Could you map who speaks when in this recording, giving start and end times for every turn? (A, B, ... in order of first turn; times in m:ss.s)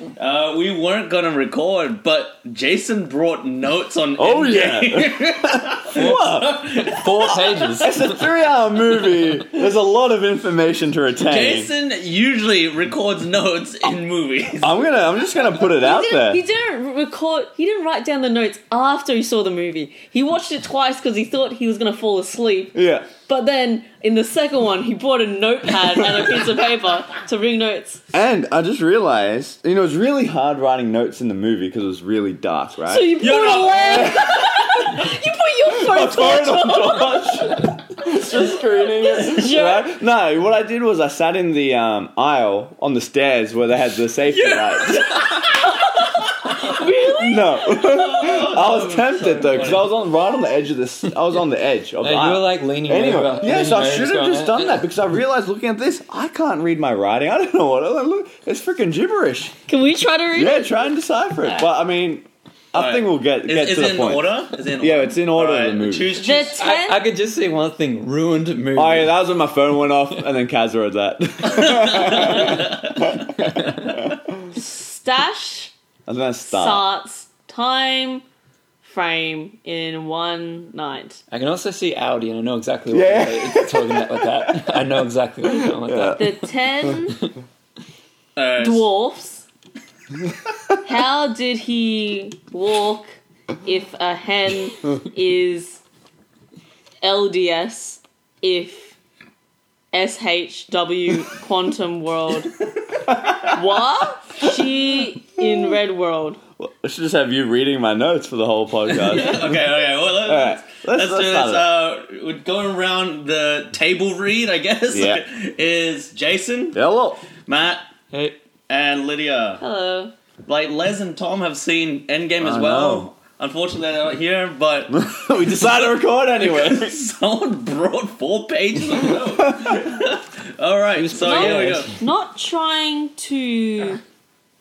0:00.2-0:07.7 A
0:04.2-0:07.0 B
0:05.9-0:08.3 C
0:07.8-0:11.7 B
0:11.2-0:14.9 A
0:14.6-0:16.4 B
0:15.5-0:28.0 D
0:22.7-0:23.1 B
0:28.1-0:33.2 B
0:32.9-0:39.9 D
0:33.2-0:34.4 A
0:35.7-0:45.1 B
0:44.2-0:45.6 A
0:45.2-0:48.3 D
0:47.2-0:59.5 B
0:47.8-0:49.9 A
0:52.0-0:54.8 C
0:59.7-1:00.9 D
1:00.3-1:06.1 B
1:01.4-1:01.7 D
1:02.7-1:06.6 A
1:06.2-1:07.0 D
1:06.5-1:09.1 C
1:08.7-1:14.5 B
1:11.4-1:13.1 A
1:14.5-1:15.7 D
1:16.0-1:16.8 B
1:16.4-1:18.2 D
1:18.8-1:21.2 D
1:21.3-1:26.3 C
1:22.9-1:26.9 B
1:26.1-1:27.2 D
1:28.4-1:28.9 A
1:28.6-1:29.5 D
1:30.8-1:35.8 D
1:37.0-1:38.9 D
1:39.9-1:42.5 D
1:43.1-1:43.4 B
1:43.5-1:46.4 D
1:45.4-1:45.7 B
1:46.6-1:49.6 B
1:48.9-1:56.8 A
1:50.2-1:51.7 B
1:54.9-1:55.2 B
1:56.7-1:57.2 B
1:57.4-1:57.8 A
1:58.1-1:58.4 C
1:58.7-1:59.6 A
1:59.6-2:00.1 D
2:00.4-2:05.0 A
2:02.4-2:03.1 B
2:04.9-2:07.0 B
2:06.4-2:11.9 A
2:09.0-2:09.9 B
2:11.0-2:11.9 C
2:11.2-2:14.0 D
2:11.2-2:11.8 B